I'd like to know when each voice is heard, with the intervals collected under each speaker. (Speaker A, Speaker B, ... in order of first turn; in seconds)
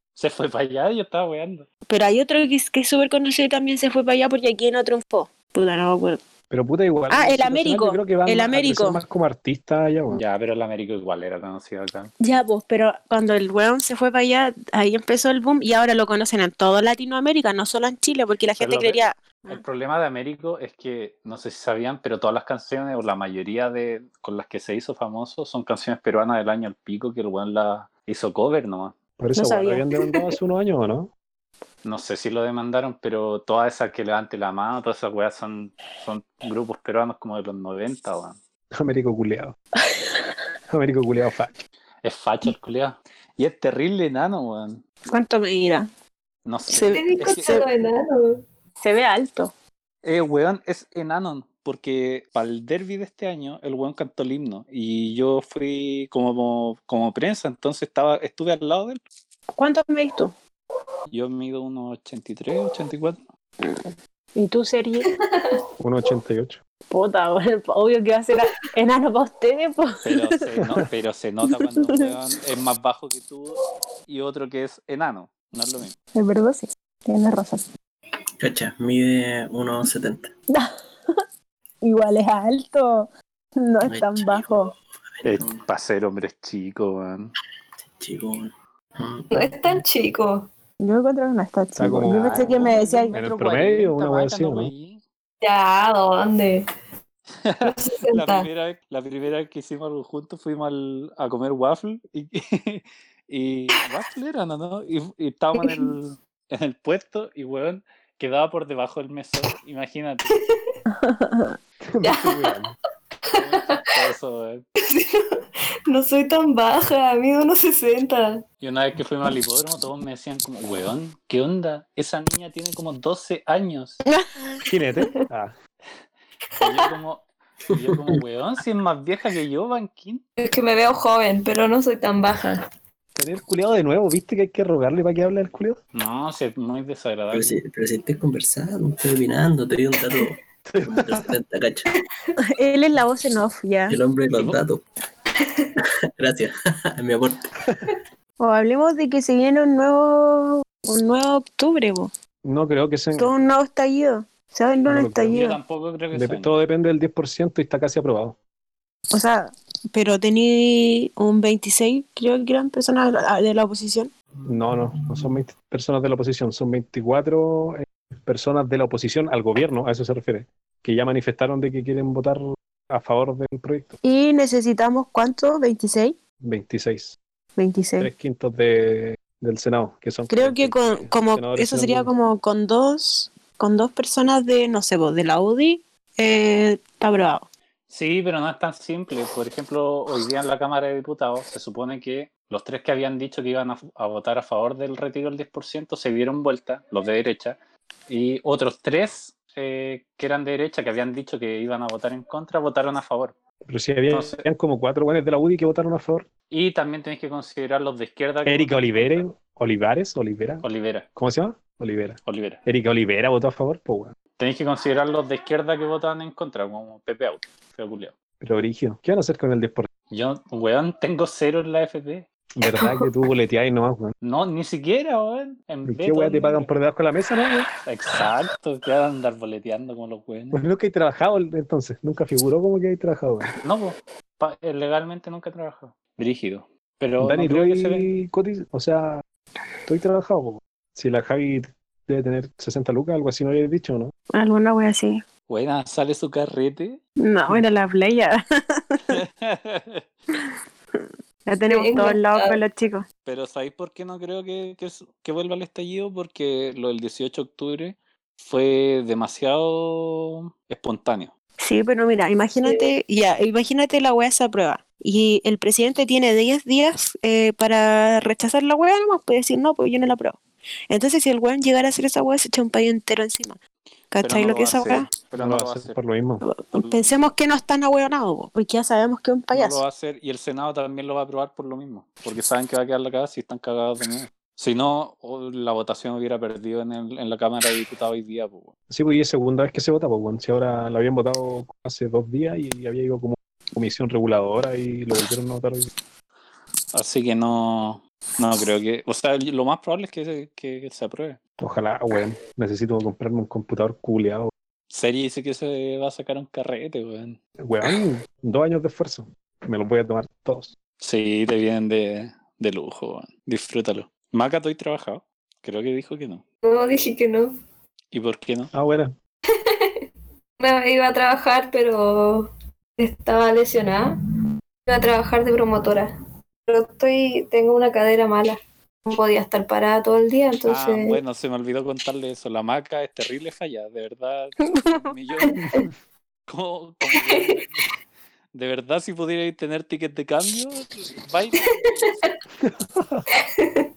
Speaker A: 0.2-1.7, 10.1-12.1, 18.6-29.0, 31.8-38.4, 42.0-44.8, 46.5-47.6, 50.0-59.0, 61.1-63.2, 70.0-73.6, 74.1-76.0, 85.2-87.3, 92.3-95.0, 97.4-110.3, 113.3-114.7, 118.6-124.0, 126.6-130.2, 135.9-137.6, 155.3-156.6, 187.9-197.6, 198.1-203.3, 204.1-204.4, 206.5-209.2, 210.6-211.1, 212.3-212.6, 214.4-218.1, 220.1-222.3, 224.2-226.7, 227.9-230.6, 233.6-238.1, 245.5-247.0, 249.1-250.0, 253.2-261.3, 274.2-276.0, 276.7-277.2, 279.5-288.7, 296.9-301.4, 304.9-307.4, 311.0-316.4, 318.1-318.7, 330.7-335.7, 336.5-337.9, 338.5-342.1
Speaker B: 1.9-6.2, 7.1-9.0, 12.2-19.6, 29.4-30.4, 45.1-45.9, 46.7-47.7, 48.8-49.5, 59.6-60.3, 63.6-65.1, 66.9-70.4, 71.4-72.1, 76.2-77.7, 80.5-81.2, 81.8-84.7, 90.8-93.1, 110.9-111.6, 124.1-124.7, 142.6-144.0, 148.4-152.1, 153.2-155.6, 159.1-164.1, 174.0-176.2, 177.6-178.1, 180.3-187.5, 244.3-245.2, 247.2-249.2, 250.9-253.1, 261.6-270.4, 270.9-273.6, 274.1-275.1, 276.4-279.8, 334.8-335.1
Speaker C: 6.5-10.2, 29.2-31.1, 38.8-39.5, 40.7-41.6, 65.8-66.6, 70.6-70.9, 91.8-94.7, 111.8-112.7, 124.7-125.5, 133.2-135.8, 140.7-141.3, 152.4-153.3, 154.9-155.4, 156.1-158.4, 164.4-174.0, 176.4-177.2, 178.0-182.1, 203.7-206.3, 208.4-210.6, 211.2-214.2, 218.4-219.9, 222.6-224.1, 225.9-227.7, 230.5-233.5, 237.2-239.2, 239.9-244.1, 275.4-276.5, 288.9-295.9, 301.6-304.5, 307.6-310.7, 318.7-319.1, 335.6-335.9, 342.6-343.3
Speaker D: 46.9-48.4, 89.3-90.5, 95.4-96.7, 97.6-98.5, 110.4-110.7, 112.0-112.5, 113.3-113.8, 114.8-115.3, 115.9-118.4, 130.4-132.6, 251.7-252.6, 316.6-317.5, 319.7-319.9, 320.6-324.1, 324.9-326.1, 326.7-331.2, 335.5-335.9, 337.1-337.6, 343.6-343.9
Speaker E: 78.4-80.3, 83.8-85.6, 88.0-89.6, 137.3-141.9, 143.9-144.8, 146.2-147.5